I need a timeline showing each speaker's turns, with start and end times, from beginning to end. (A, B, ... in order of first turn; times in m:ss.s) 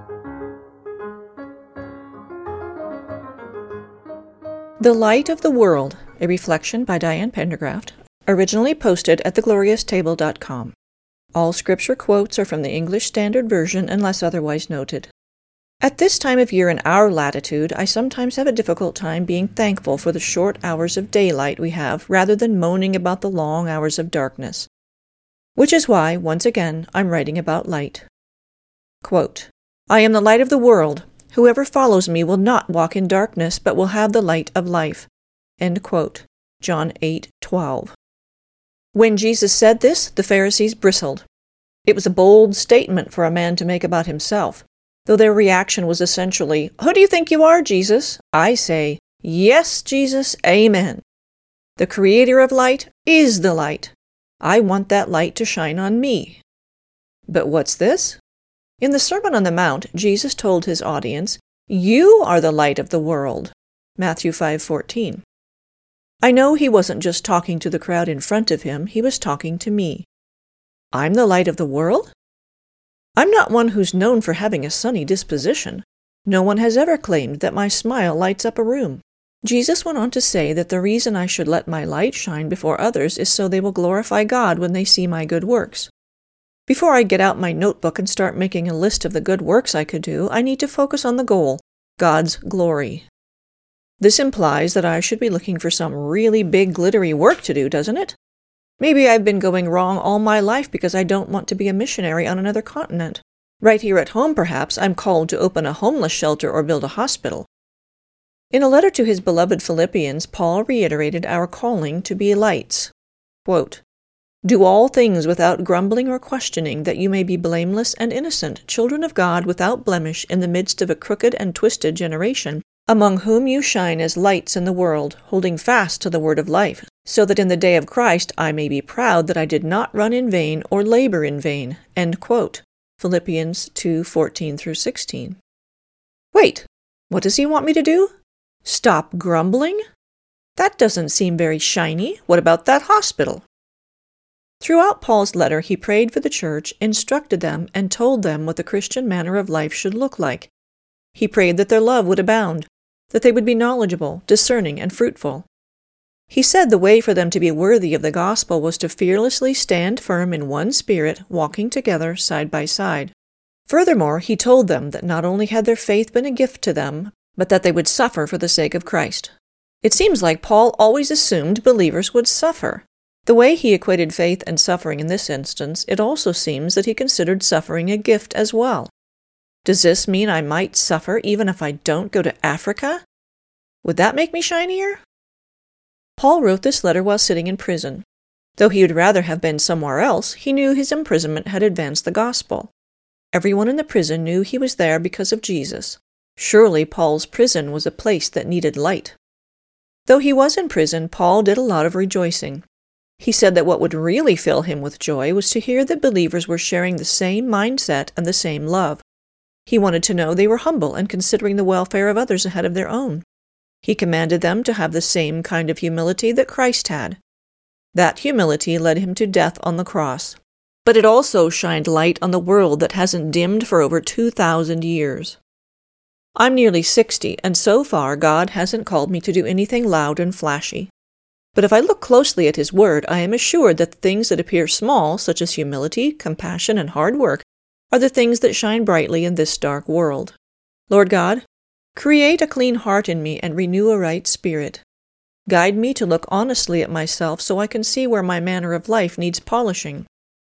0:04.8-0:10.8 A
0:11.3-0:15.1 A
0:15.8-0:24.7 A
0:25.6-0:28.1 A
0:29.0-0:37.9 A
0:38.9-0:41.2 A
0:41.8-0:51.0 A
0:51.8-0:56.4 A
0:57.3-0:58.2 A
0:58.8-1:05.2 A
1:06.2-1:10.1 A
1:10.9-1:12.1 A
1:13.2-1:25.9 A
1:26.7-1:33.1 A
1:34.0-1:38.2 A
1:38.8-1:47.5 A
1:48.5-1:52.9 A
1:53.4-1:53.8 A
1:54.4-2:15.4 A
2:16.3-2:18.1 A
2:18.6-2:19.8 A
2:20.6-2:23.4 A
2:24.6-2:30.5 A
2:31.2-2:35.5 A
2:36.3-2:43.1 A
2:43.7-2:58.9 A
2:59.6-3:03.0 A
3:03.8-3:05.0 A
3:06.2-3:08.0 A
3:08.6-3:12.7 A
3:13.3-3:19.2 A
3:20.1-3:22.6 A
3:23.2-3:29.0 A
3:29.7-3:33.2 A
3:33.8-3:37.2 A
3:37.9-3:45.4 A
3:46.4-3:50.9 A
3:51.6-4:00.4 A
4:00.9-4:01.4 A
4:02.0-4:04.8 A
4:05.5-4:10.1 A